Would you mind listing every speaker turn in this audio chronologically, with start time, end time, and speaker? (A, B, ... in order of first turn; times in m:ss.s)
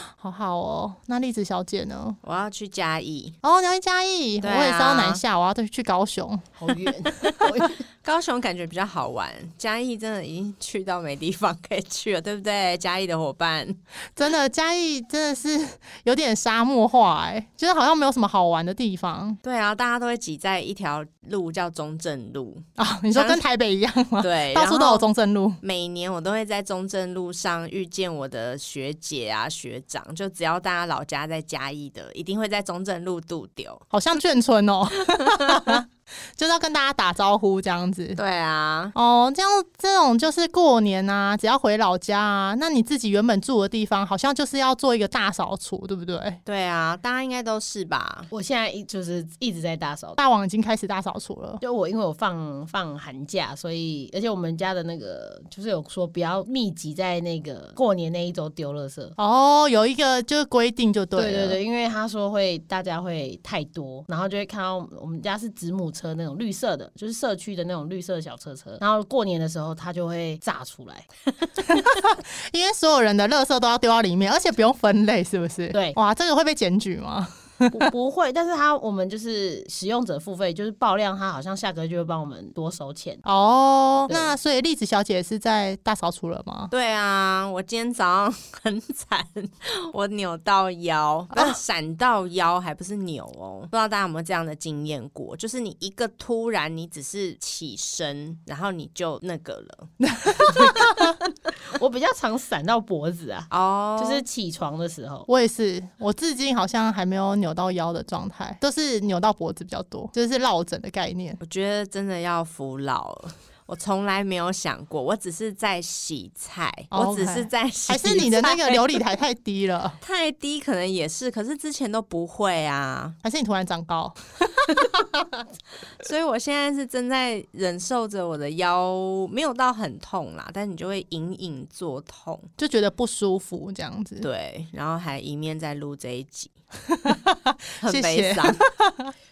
0:00.2-0:02.2 A
0:02.2-0:03.4 B
0:03.4-0:06.5 A
0:04.4-0:05.2 B
0:06.6-0:07.8 C
0:08.0-0:13.8 B
0:14.2-0:19.4 A
0:19.4-0:23.4 B
0:22.8-0:25.6 A
0:24.2-0:25.1 B
0:25.6-0:33.8 B
0:33.9-0:35.9 A
0:36.4-0:38.2 A
0:38.2-0:38.9 B
0:38.9-0:46.4 A
0:46.5-0:48.3 B
0:48.3-0:50.2 C
0:50.2-0:51.6 A
0:51.6-0:59.2 C
0:59.2-1:01.6 A
1:01.2-1:11.1 C
1:11.7-1:17.9 A
1:15.7-1:16.0 C
1:17.7-1:23.2 C
1:23.2-1:26.7 A
1:24.1-1:24.4 C
1:26.7-1:39.9 B
1:31.3-1:31.6 A
1:40.0-1:41.2 A
1:41.6-1:45.3 C
1:43.5-1:44.2 B
1:45.3-1:51.4 A
1:51.4-1:59.0 B
1:56.9-2:00.0 A
2:00.0-2:03.2 B
2:03.2-2:05.1 A
2:06.0-2:12.5 B
2:12.6-2:14.3 A
2:14.2-2:16.5 B
2:17.0-2:19.1 A
2:17.8-2:18.6 B